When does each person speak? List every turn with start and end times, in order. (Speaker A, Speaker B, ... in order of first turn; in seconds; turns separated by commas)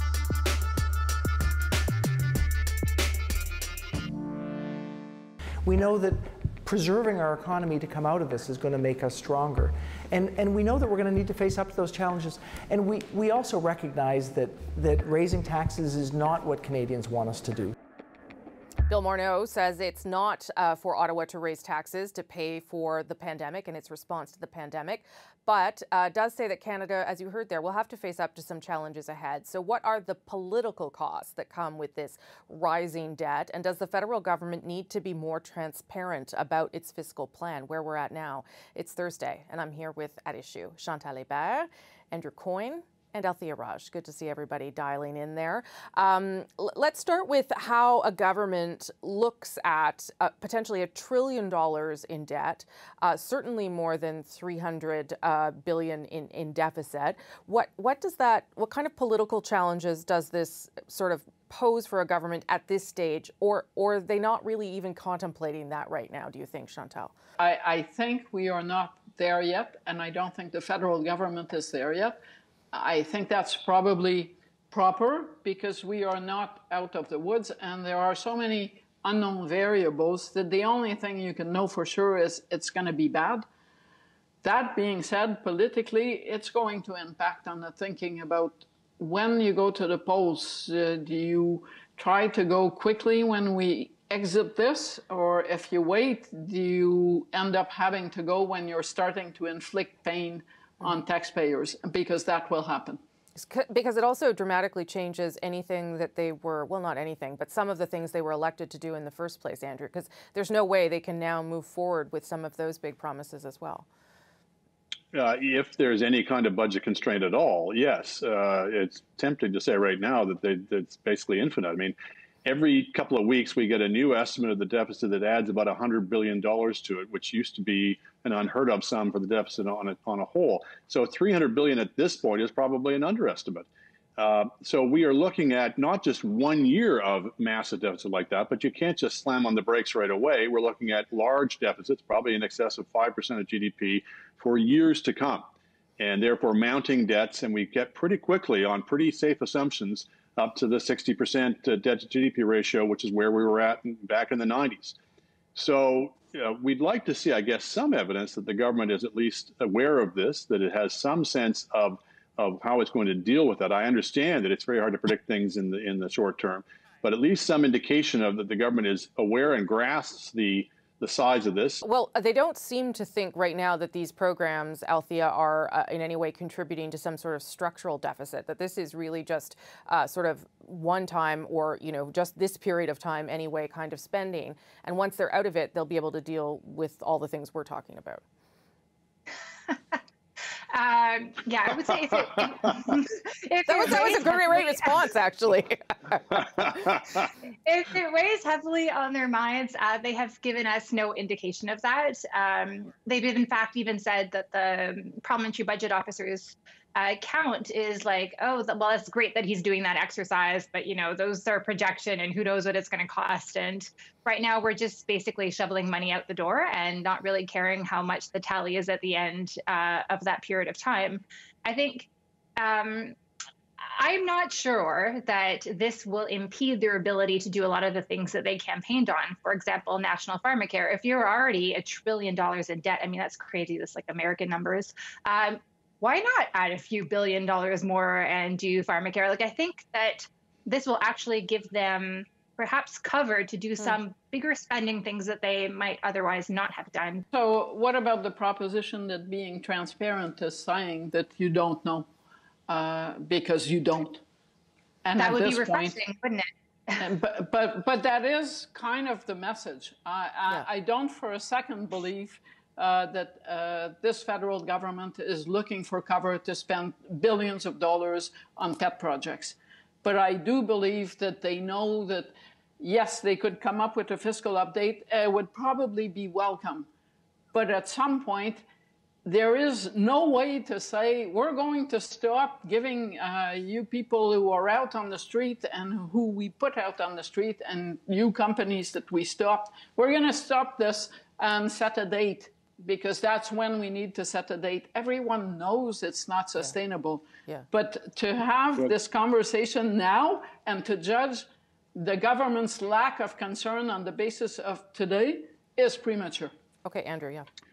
Speaker A: 5.7-17.7, Speaker B: 18.9-67.2, Speaker C: 67.4-72.2, Speaker C: 72.7-83.5, Speaker C: 84.4-103.0, Speaker B: 103.3-113.9, Speaker D: 115.4-121.9, Speaker D: 122.5-133.6, Speaker D: 134.2-145.4, Speaker D: 146.0-154.9, Speaker D: 155.6-171.8, Speaker B: 171.8-188.2, Speaker E: 190.8-192.2, Speaker E: 193.5-194.4, Speaker B: 193.7-196.8, Speaker E: 197.7-206.5, Speaker E: 207.3-209.6, Speaker E: 210.7-211.7, Speaker E: 212.3-213.8, Speaker E: 214.3-215.5, Speaker E: 216.4-216.7, Speaker E: 217.4-218.7, Speaker E: 220.3-221.2, Speaker E: 222.8-223.1, Speaker E: 224.0-225.1, Speaker E: 227.5-229.6, Speaker E: 230.3-235.5, Speaker E: 236.0-238.5, Speaker E: 239.3-240.1, Speaker E: 240.7-247.2, Speaker C: 247.3-252.1, Speaker C: 252.7-254.2, Speaker C: 255.0-256.0, Speaker E: 255.4-256.4, Speaker C: 257.0-276.9, Speaker C: 277.5-278.6, Speaker C: 279.3-306.5, Speaker B: 306.9-307.5